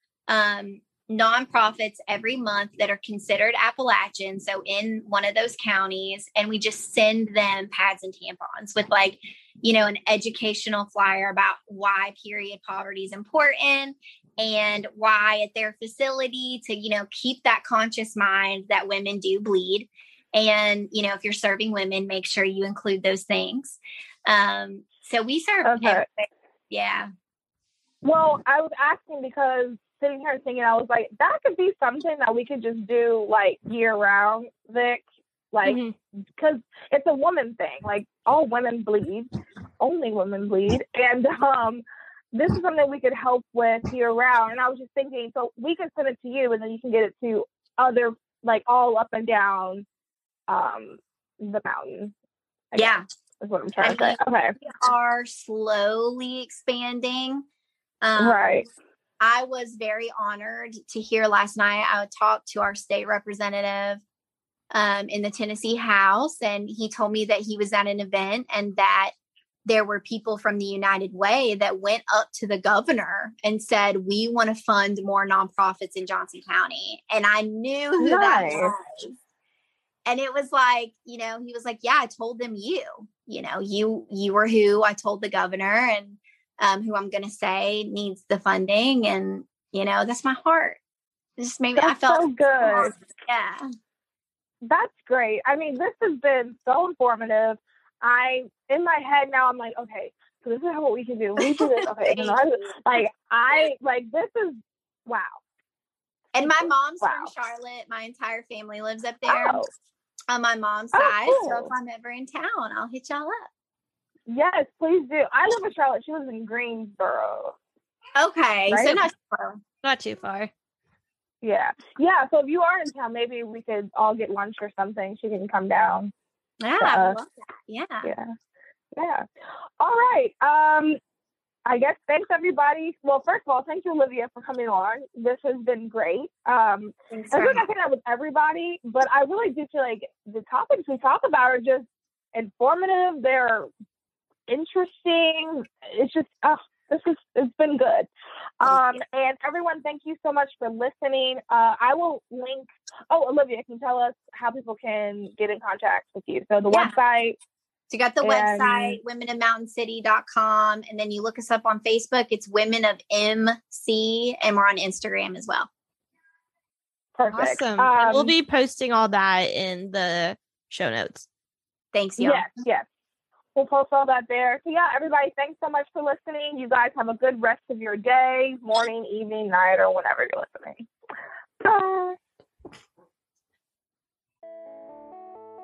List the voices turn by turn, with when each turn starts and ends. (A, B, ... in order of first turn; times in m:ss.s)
0:00.3-0:27.1 A
0:25.6-0:26.0 B
0:28.0-0:35.8 B
0:35.6-0:35.9 C
0:36.4-0:49.8 B
0:50.5-0:52.1 B
0:52.7-0:54.5 B
0:52.8-0:53.0 A
0:53.8-0:57.4 A
0:58.0-0:58.4 A
0:58.2-0:58.6 B
0:59.2-1:04.0 A
1:04.7-1:09.1 A
1:09.6-1:19.1 A
1:18.0-1:18.7 B
1:20.0-1:30.8 A
1:31.4-1:33.7 A
1:31.8-1:32.9 B
1:34.6-1:45.4 B
1:41.4-1:42.4 A
1:46.3-1:49.6 A
1:46.4-1:47.3 B
1:49.2-1:49.7 B
1:50.3-1:53.5 A
1:50.9-1:51.7 B
1:54.3-1:57.6 B
1:58.2-1:59.6 A
1:58.7-1:59.0 B
1:59.8-2:00.5 C
2:01.4-2:06.1 B
2:06.6-2:08.1 A
2:06.8-2:07.2 B
2:08.0-2:08.3 B
2:09.0-2:09.2 B
2:09.8-2:11.0 B
2:11.6-2:23.7 B
2:17.1-2:17.6 A
2:24.5-2:28.1 B
2:28.6-2:37.4 B
2:28.6-2:29.0 A
2:36.7-2:37.0 A
2:37.9-2:45.7 A
2:38.2-2:39.0 B
2:47.2-2:48.3 B
2:47.3-2:51.3 C
2:51.9-2:52.5 A
2:52.2-2:52.8 B
2:53.5-3:00.9 B
3:01.6-3:02.2 B